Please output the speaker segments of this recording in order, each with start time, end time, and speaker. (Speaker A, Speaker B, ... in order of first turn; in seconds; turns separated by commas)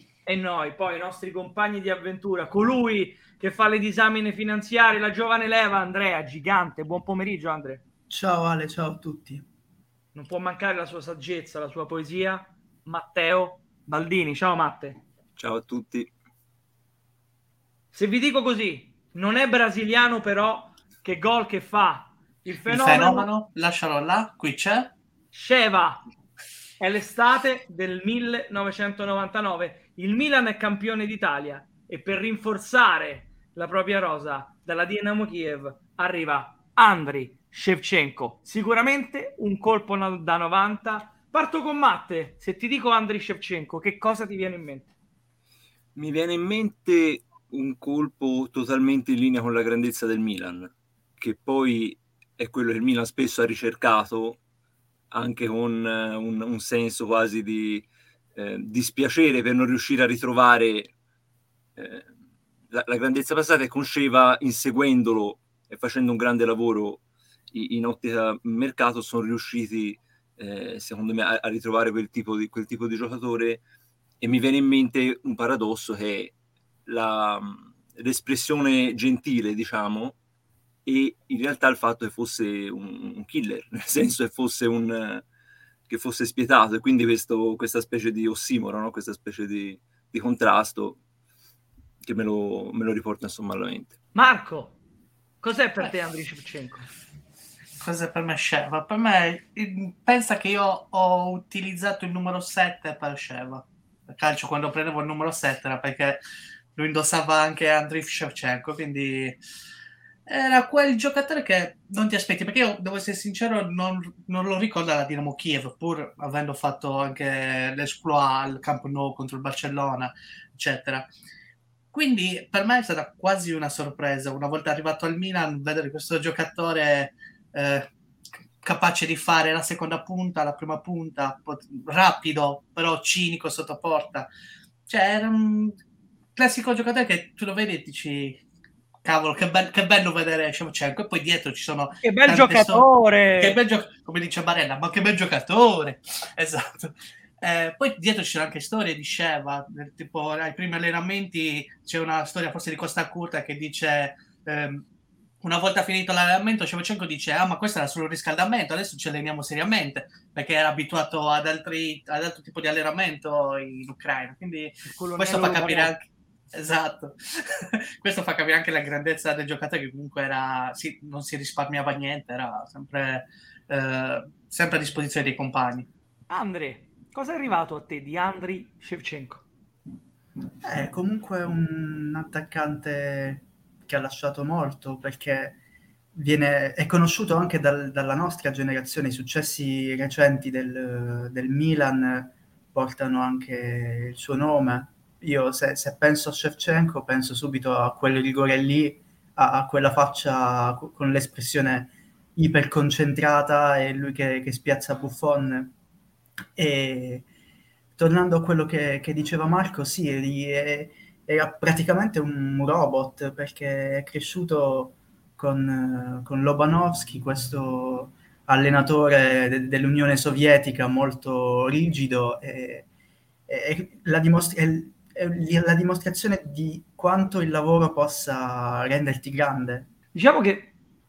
Speaker A: 0.3-7.8, Speaker B: 8.1-9.4, Speaker A: 10.2-15.0, Speaker C: 15.4-16.1, Speaker A: 17.9-23.3, Speaker D: 22.7-24.9, Speaker A: 25.3-26.0, Speaker A: 26.8-44.9, Speaker C: 46.0-54.4, Speaker C: 55.1-60.9, Speaker C: 61.8-62.1, Speaker C: 62.7-67.0, Speaker C: 67.5-73.6, Speaker C: 74.2-76.3, Speaker C: 76.9-80.2, Speaker C: 80.8-85.2, Speaker C: 85.9-91.0, Speaker C: 92.0-93.9, Speaker A: 94.2-94.8, Speaker A: 95.4-96.9, Speaker D: 97.8-106.2, Speaker D: 106.8-109.4, Speaker D: 110.3-121.1, Speaker D: 121.9-127.9, Speaker D: 128.6-134.3, Speaker D: 134.9-135.7, Speaker D: 136.3-138.4, Speaker D: 139.0-142.9, Speaker A: 142.0-143.6, Speaker D: 143.4-154.8, Speaker D: 155.4-175.9, Speaker A: 164.8-165.9, Speaker A: 176.3-179.4, Speaker B: 180.6-185.6, Speaker B: 186.1-205.7, Speaker B: 206.6-207.3, Speaker B: 208.0-222.9, Speaker B: 223.5-229.9, Speaker A: 230.1-230.7